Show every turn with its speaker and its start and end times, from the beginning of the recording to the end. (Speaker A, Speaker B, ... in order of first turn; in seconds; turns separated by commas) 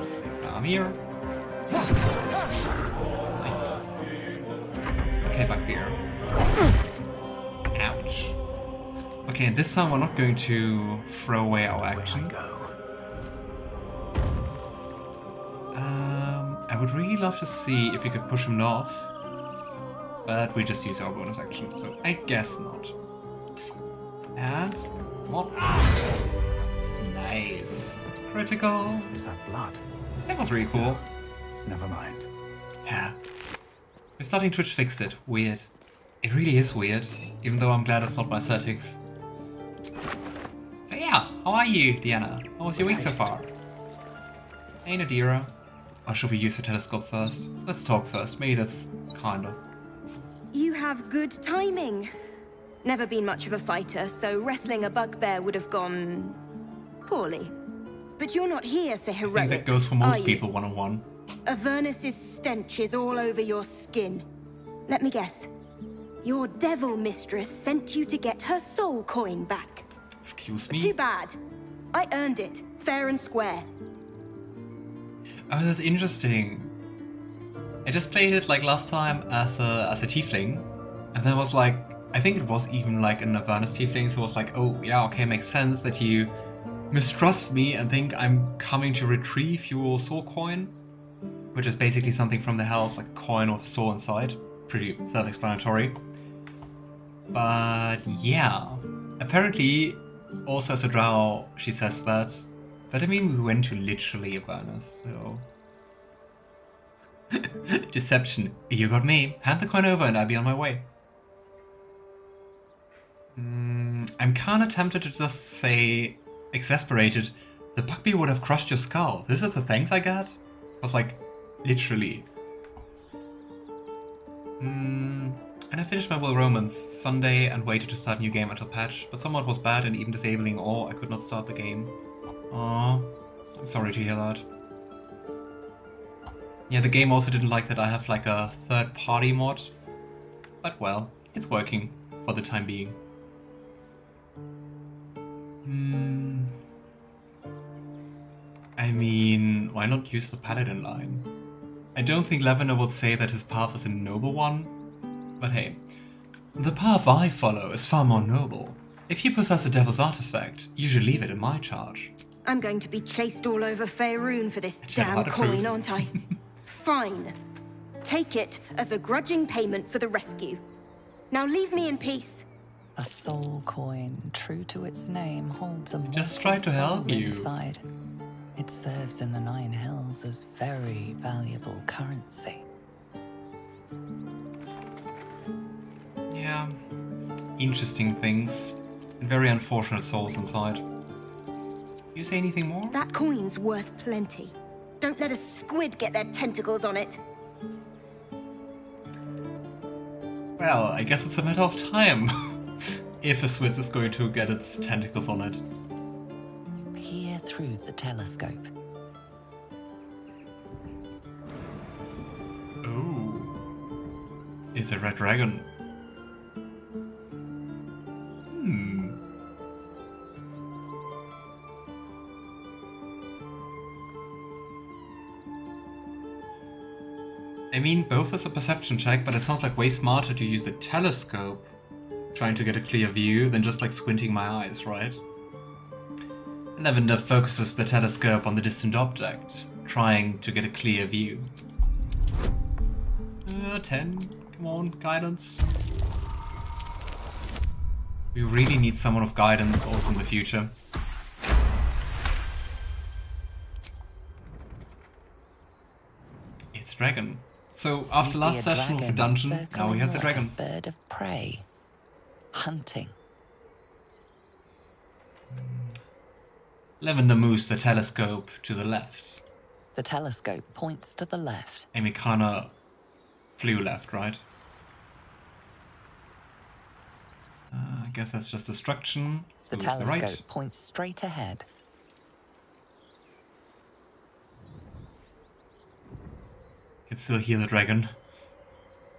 Speaker A: 0.3-1.0, Speaker A: 3.3-4.0, Speaker A: 5.2-6.0, Speaker A: 7.7-8.4, Speaker A: 9.2-12.4, Speaker B: 11.7-12.7, Speaker A: 15.7-19.1, Speaker A: 20.2-22.9, Speaker A: 24.4-26.1, Speaker A: 27.0-29.1, Speaker B: 29.1-29.8, Speaker A: 30.3-31.1, Speaker B: 31.6-32.3, Speaker A: 32.8-33.2, Speaker A: 34.2-35.7, Speaker A: 36.2-39.0, Speaker A: 40.9-43.5, Speaker B: 42.8-43.3, Speaker A: 44.8-45.5, Speaker A: 46.0-49.6, Speaker C: 50.5-52.1, Speaker C: 52.8-56.4, Speaker C: 57.0-57.5, Speaker C: 58.2-60.4, Speaker A: 59.2-61.1, Speaker C: 61.5-64.2, Speaker C: 64.9-65.5, Speaker C: 66.2-69.9, Speaker A: 70.2-70.9, Speaker C: 70.7-71.4, Speaker C: 71.9-73.7, Speaker A: 75.5-76.7, Speaker A: 77.8-86.3, Speaker A: 86.9-90.7, Speaker A: 91.5-96.0, Speaker A: 97.3-105.5, Speaker A: 107.3-110.9, Speaker A: 113.3-122.3, Speaker A: 124.6-131.9, Speaker A: 132.5-134.4, Speaker A: 136.7-139.7, Speaker A: 140.6-143.0, Speaker A: 145.6-146.6, Speaker A: 148.8-151.3, Speaker A: 151.9-154.7, Speaker A: 155.4-155.8, Speaker A: 156.6-162.1, Speaker C: 162.4-167.3, Speaker A: 164.8-166.3, Speaker C: 168.0-170.6, Speaker C: 171.3-172.4, Speaker D: 172.9-177.8, Speaker A: 176.1-177.5, Speaker D: 178.6-182.6, Speaker A: 186.3-186.8, Speaker A: 187.6-190.8, Speaker A: 192.1-193.0, Speaker C: 192.9-197.2, Speaker A: 200.6-205.6, Speaker D: 206.9-208.7, Speaker A: 212.8-213.6, Speaker A: 214.7-215.7, Speaker A: 218.5-219.2, Speaker A: 227.7-231.7, Speaker A: 232.3-235.2, Speaker A: 236.8-241.5, Speaker A: 243.4-245.7, Speaker A: 248.3-250.7, Speaker A: 256.7-260.6, Speaker D: 258.2-261.6, Speaker D: 262.5-263.1, Speaker A: 265.5-266.0, Speaker A: 267.0-269.4, Speaker D: 269.9-271.9, Speaker A: 271.9-272.7, Speaker A: 273.6-274.4, Speaker A: 277.7-280.4, Speaker D: 279.7-281.7, Speaker A: 287.1-288.1